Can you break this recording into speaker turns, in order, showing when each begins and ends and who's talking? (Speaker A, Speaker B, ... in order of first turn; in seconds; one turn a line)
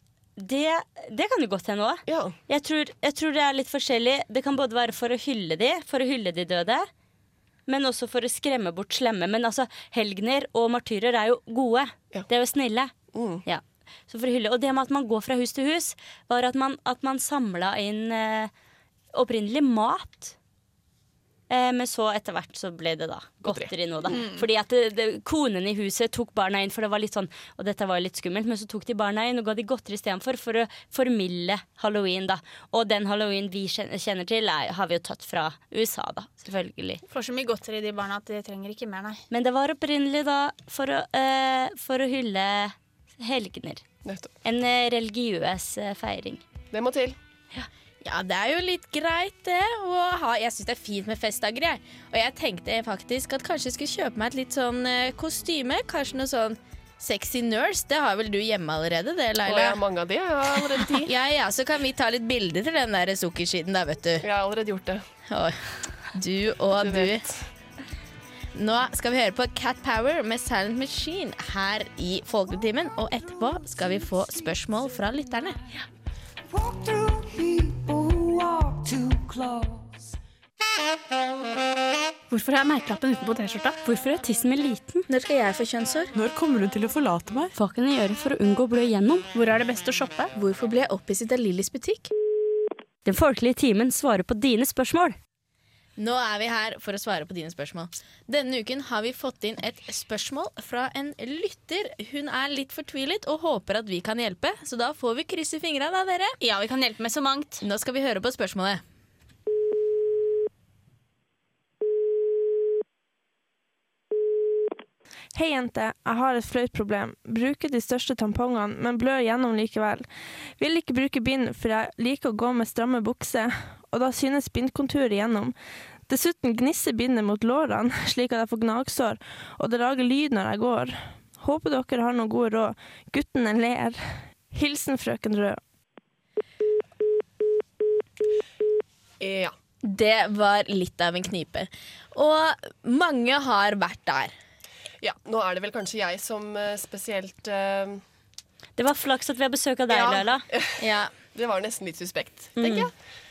Speaker A: 0.4-6.9
Speaker B: 2.1-2.4
Speaker A: 7.7-12.9
Speaker B: 13.1-13.4
Speaker A: 13.4-18.5
Speaker A: 19.1-20.4
Speaker A: 21.5-37.0
Speaker C: 24.1-24.4
Speaker C: 37.1-39.2
Speaker A: 39.3-43.8
Speaker B: 44.0-44.3
Speaker A: 44.4-46.4
Speaker B: 46.7-47.2
Speaker D: 48.0-59.8
Speaker B: 59.5-61.1
Speaker D: 60.5-64.3
Speaker B: 64.2-65.0
Speaker D: 65.3-67.3
Speaker B: 66.8-67.5
Speaker D: 68.5-75.6
Speaker E: 77.0-79.7
Speaker C: 82.3-83.8
Speaker A: 83.8-85.1
Speaker D: 85.1-86.1
Speaker E: 86.2-87.5
Speaker A: 87.5-89.3
Speaker C: 89.3-90.3
Speaker D: 90.3-92.1
Speaker A: 93.0-95.2
Speaker D: 96.0-106.4
Speaker C: 106.4-107.6
Speaker D: 107.6-108.8
Speaker F: 115.3-120.1
Speaker F: 120.6-125.5
Speaker F: 126.1-135.6
Speaker B: 139.2-139.5
Speaker D: 139.8-144.3
Speaker B: 145.0-148.0
Speaker A: 148.8-150.5
Speaker B: 149.9-152.9
Speaker D: 150.8-151.1
Speaker A: 152.6-152.9